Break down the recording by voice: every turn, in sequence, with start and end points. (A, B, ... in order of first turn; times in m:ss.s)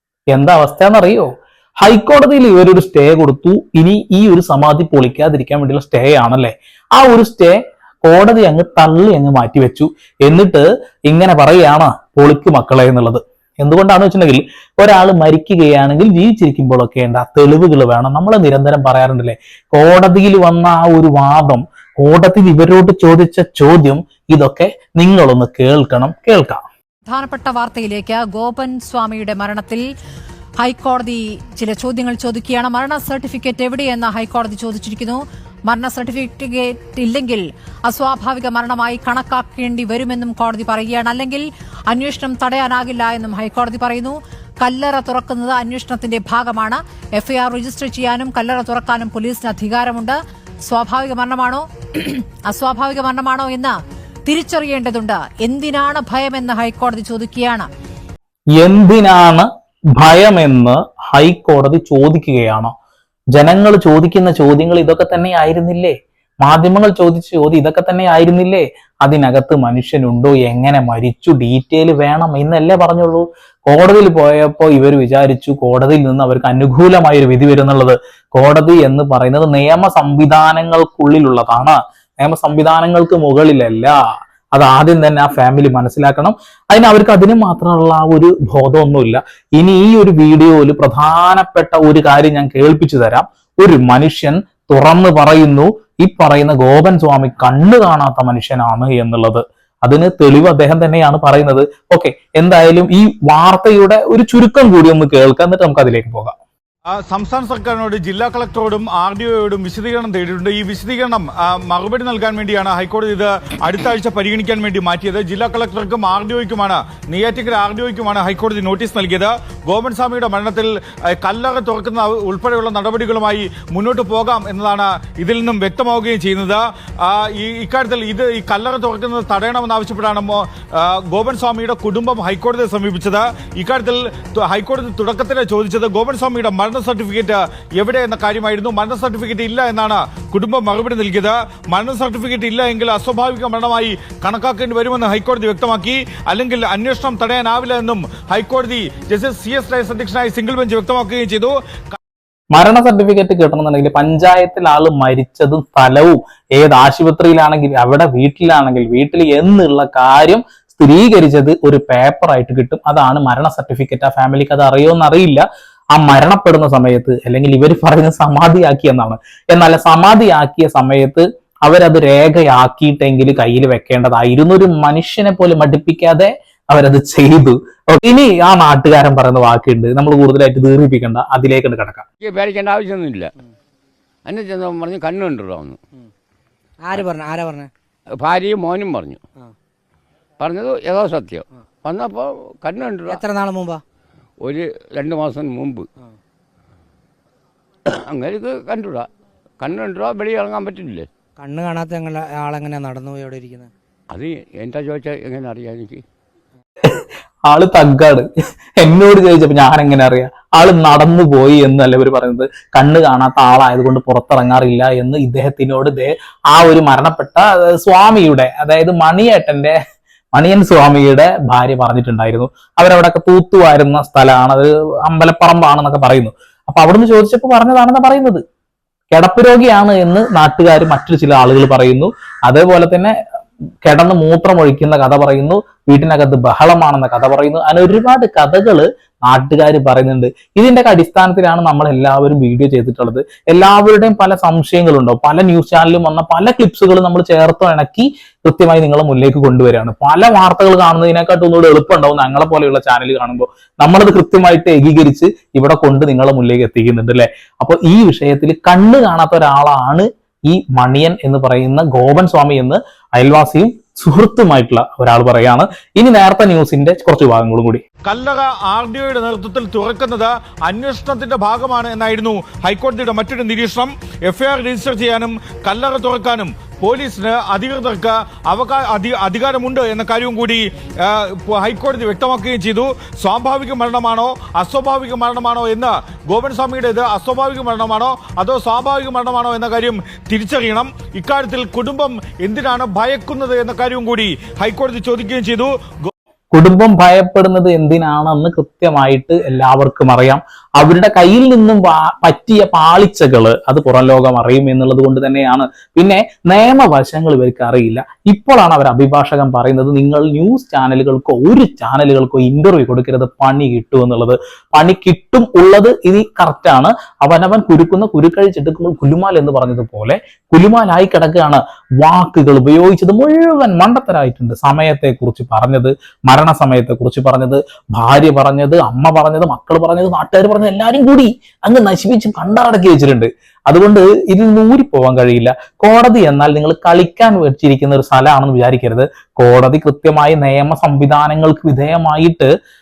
0:00.3-0:01.3 A
0:01.8-0:26.6 A
0:27.1-0:29.8 B
0:30.6-0:50.2 B
0:50.7-0:53.7 B
0:54.3-0:57.7 B
0:58.6-0:59.5 A
1:00.0-1:02.7 A
1:03.4-1:24.0 A
1:24.5-1:46.3 A
1:46.9-2:32.0 C
2:32.5-3:02.0 A
3:02.2-3:03.3 D
3:04.3-3:05.8 D
3:06.8-3:07.7 E
3:08.1-3:09.2 D
3:10.4-3:13.2 D
3:13.1-3:13.8 E
3:14.4-3:15.9 D
3:17.9-3:19.1 D
3:19.6-3:21.1 D
3:21.4-3:23.7 E
3:24.1-3:26.0 D
3:26.9-3:28.3 A
3:28.8-3:39.8 A
3:40.3-3:48.4 A
3:49.1-3:53.1 A
3:53.8-4:27.8 A
4:28.0-4:56.1 C
4:56.5-5:42.5 A